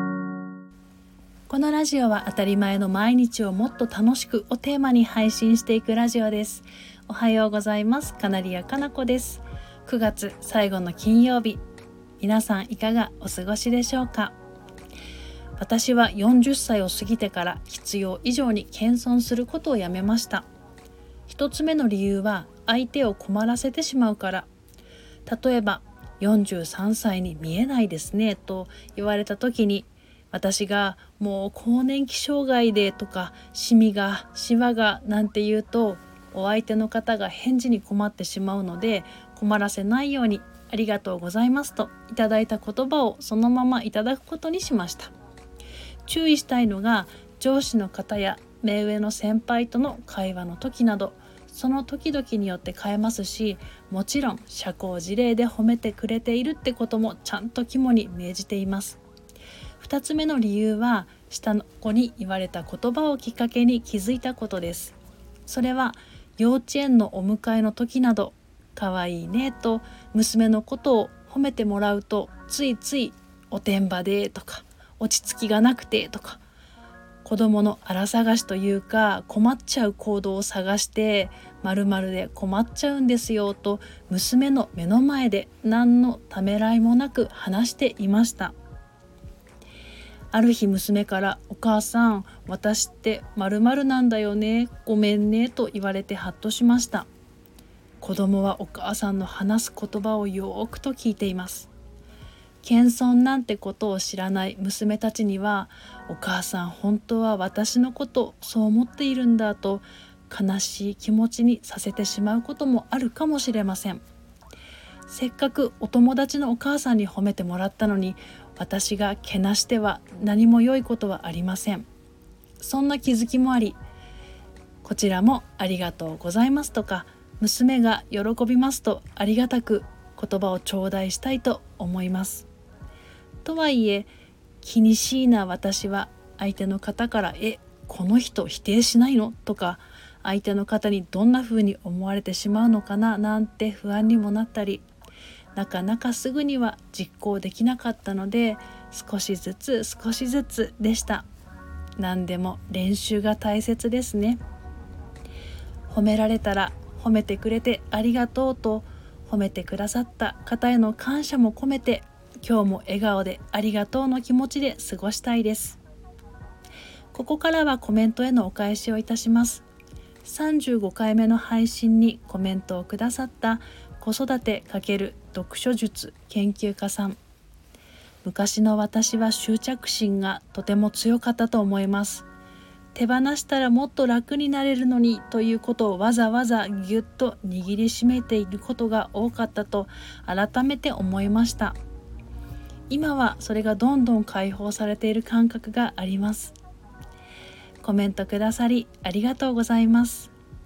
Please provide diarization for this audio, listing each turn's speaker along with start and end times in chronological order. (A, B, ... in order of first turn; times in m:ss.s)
0:01.5-0:11.6 A
0:12.2-0:14.4 A
0:15.6-0:20.5 A
0:21.3-0:24.5 A
0:25.2-0:45.1 A
0:46.0-0:59.0 A
0:59.8-1:16.4 A
1:17.2-1:28.5 A
1:30.3-1:37.1 A
1:38.0-1:41.7 A
1:42.6-1:54.0 A
1:55.1-2:01.9 A
2:02.6-2:03.8 A
2:04.8-2:12.5 A
2:13.4-2:14.1 A
2:14.6-2:24.8 A
2:25.5-2:31.3 A
2:32.0-2:34.4 A
2:35.9-2:45.8 A
2:47.1-2:49.6 A
2:50.2-2:57.2 A
2:58.2-3:02.3 A
3:02.9-3:11.8 A
3:12.9-3:16.6 A
3:17.8-3:20.3 A